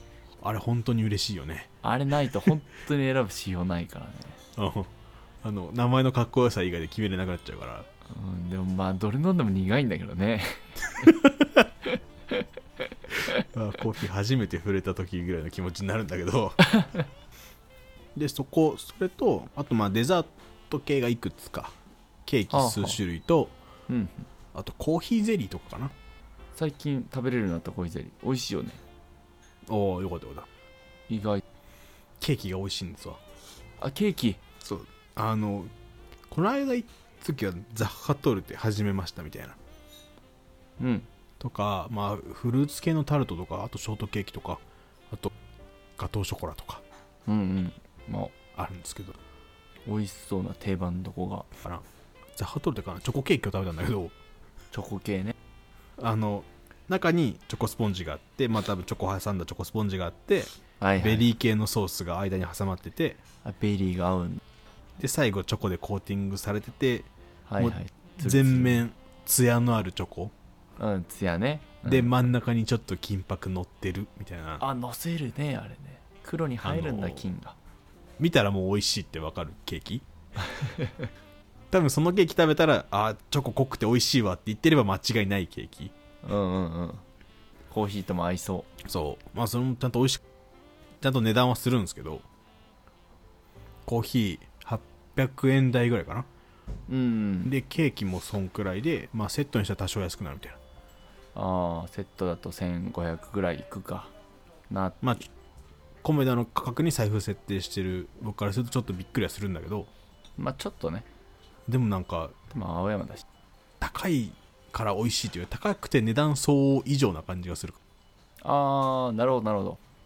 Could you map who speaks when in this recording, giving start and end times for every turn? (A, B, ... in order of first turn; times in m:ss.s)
0:00.4-0:01.7 A
0:01.8-0:04.4 B
0:04.6-0:04.9 A
0:05.4-0:07.9 A
0:08.1-0:11.2 B
0:11.2-0:11.7 A
0:11.9-0:12.4 B
0:13.3-0:16.7 A
0:18.2-0:21.7 A
0:22.3-0:23.6 A
0:22.5-0:23.0 B
0:23.9-0:24.3 B
0:24.5-0:25.9 A
0:26.6-0:28.8 B
0:29.7-0:30.5 A
0:31.1-0:31.4 B
0:32.2-0:33.2 A
0:33.8-0:34.4 B
0:34.6-0:35.7 A
0:36.3-0:39.6 A
0:40.8-0:41.1 B
0:41.4-0:45.3 A
0:46.0-0:46.8 A
0:47.3-0:48.4 B
0:48.6-0:49.2 A
0:49.8-0:51.5 B
0:51.6-0:51.9 A
0:52.4-0:54.1 A
0:54.7-0:55.4 B
0:56.0-1:03.2 A
1:00.8-1:01.3 B
1:03.4-1:04.4 B
1:05.0-1:10.3 A
1:07.5-1:08.8 B
1:10.8-1:12.3 B
1:11.8-1:14.6 A
1:14.6-1:17.6 B
1:16.6-1:17.3 A
1:18.2-1:20.0 A
1:20.4-1:21.1 B
1:21.7-1:25.9 A
1:26.2-1:27.0 B
1:27.7-1:28.7 B
1:28.8-1:30.2 A
1:31.0-1:32.2 A
1:33.9-1:36.3 A
1:36.9-1:37.5 B
1:37.4-1:40.6 A
1:41.4-1:44.1 B
1:44.7-1:45.2 B
1:46.0-1:49.9 A
1:50.4-1:51.1 B
1:51.7-1:52.4 A
1:52.5-1:53.2 B
1:53.8-1:57.8 A
1:58.4-1:59.8 B